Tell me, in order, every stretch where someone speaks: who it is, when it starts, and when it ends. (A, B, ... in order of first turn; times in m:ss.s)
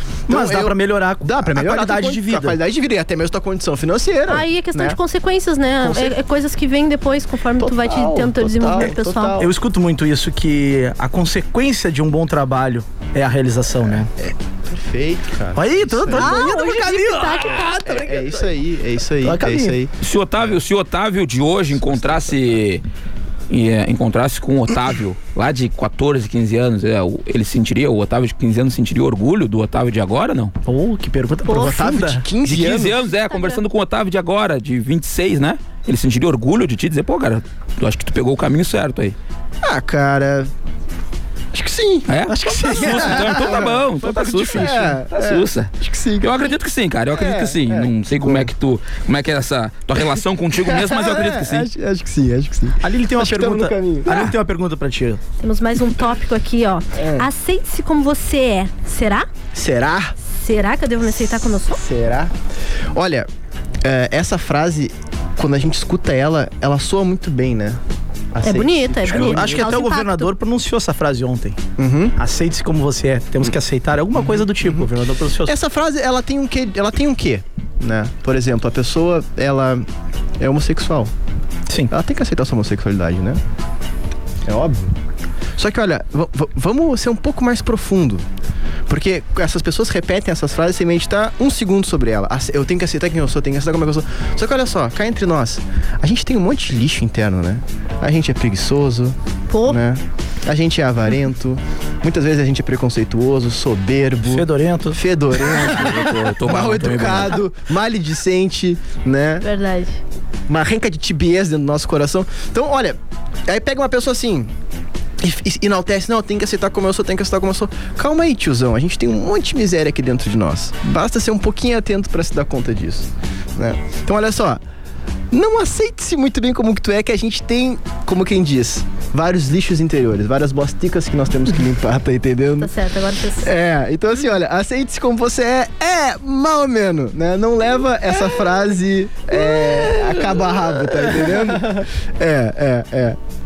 0:00.3-0:02.6 A
0:00.3-0:05.0 B
0:04.3-0:09.4 C
0:05.8-0:06.2 B
0:07.6-0:09.5 B
0:09.4-0:14.1 A
0:14.1-0:16.5 B
0:15.6-0:18.5 A
0:16.1-0:17.6 C
0:17.8-0:19.9 B
0:19.2-0:19.8 A
0:20.0-0:22.8 D
0:21.9-0:22.3 B
0:23.5-0:30.5 D
0:30.7-0:32.2 A
0:31.5-0:33.0 B
0:32.4-0:39.2 D
0:33.3-0:33.6 C
0:39.6-0:40.5 B
0:41.5-0:43.9 B
0:42.1-0:51.7 D
0:42.3-0:44.9 A
0:44.4-0:46.5 B
0:47.1-0:48.5 B
0:50.6-0:54.2 B
0:52.8-0:55.2 A
0:55.4-0:59.3 C
0:57.0-0:57.3 B
0:59.5-1:00.2 B
1:00.3-1:01.8 C
1:01.7-1:02.3 B
1:02.9-1:03.3 B
1:03.8-1:07.8 B
1:08.3-1:09.7 B
1:08.4-1:10.3 C
1:09.0-1:11.6 A
1:11.8-1:12.2 B
1:12.2-1:15.6 A
1:14.2-1:14.9 B
1:15.5-1:19.9 B
1:20.4-1:21.1 B
1:21.7-1:21.9 A
1:21.9-1:23.4 B
1:24.4-1:24.9 B
1:25.6-1:28.2 B
1:28.9-1:49.5 B
1:39.5-1:39.8 C
1:44.2-1:45.0 A
1:45.4-1:47.4 D
1:49.4-1:50.0 C
1:50.5-1:54.5 B
1:55.2-2:04.6 B
2:05.3-2:12.7 B
2:12.6-2:13.5 C
2:13.4-2:23.2 B
2:19.3-2:21.8 A